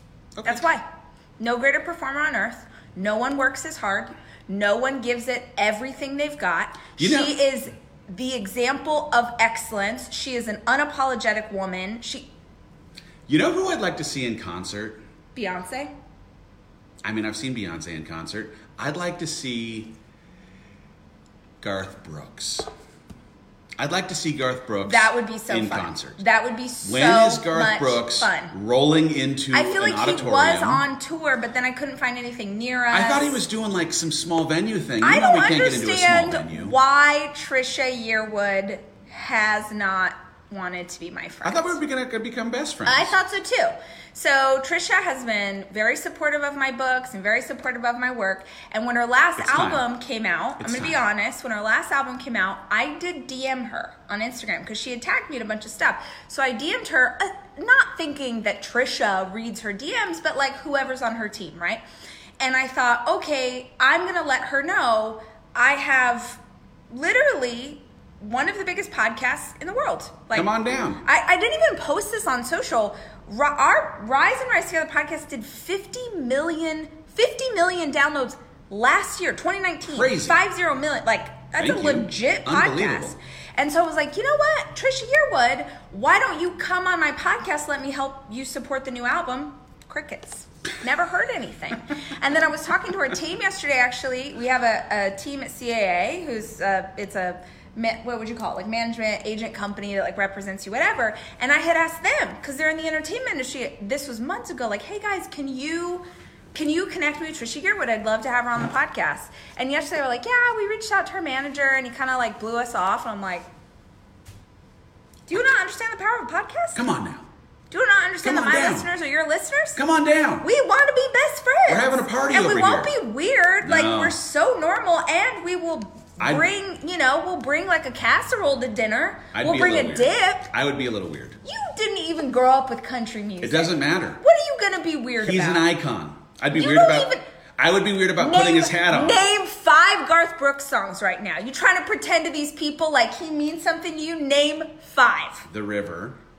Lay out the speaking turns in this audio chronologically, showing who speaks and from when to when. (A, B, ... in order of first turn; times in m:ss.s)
0:00.4-0:00.7 A
0:00.4-0:00.8 B
0:01.4-0:12.3 B
0:07.0-0:07.4 A
0:13.3-0:15.0 A
0:15.4-0:15.9 B
0:17.0-0:20.0 A
0:21.6-0:22.7 A
0:23.8-0:26.2 A
0:24.8-0:28.5 B
0:26.8-0:30.8 A
0:29.5-0:33.4 B
0:32.9-0:36.8 A
0:35.0-0:41.8 B
0:41.4-0:43.2 A
0:42.9-1:01.8 B
0:49.4-0:49.8 A
0:50.6-0:51.0 A
1:02.4-1:53.5 B
1:10.3-1:11.0 A
1:19.9-1:20.4 A
1:21.6-1:23.2 A
1:55.3-1:56.8 B
1:56.8-1:57.3 A
1:57.7-1:59.8 B
1:58.2-1:58.9 A
1:59.8-2:00.5 A
2:00.4-2:10.5 B
2:01.7-2:02.9 A
2:03.6-2:04.2 A
2:06.2-2:06.5 A
2:09.3-2:11.4 A
2:11.4-2:15.7 B
2:13.4-2:14.2 A
2:15.2-2:19.3 A
2:16.5-2:17.2 B
2:18.2-2:25.5 B
2:25.5-2:26.2 A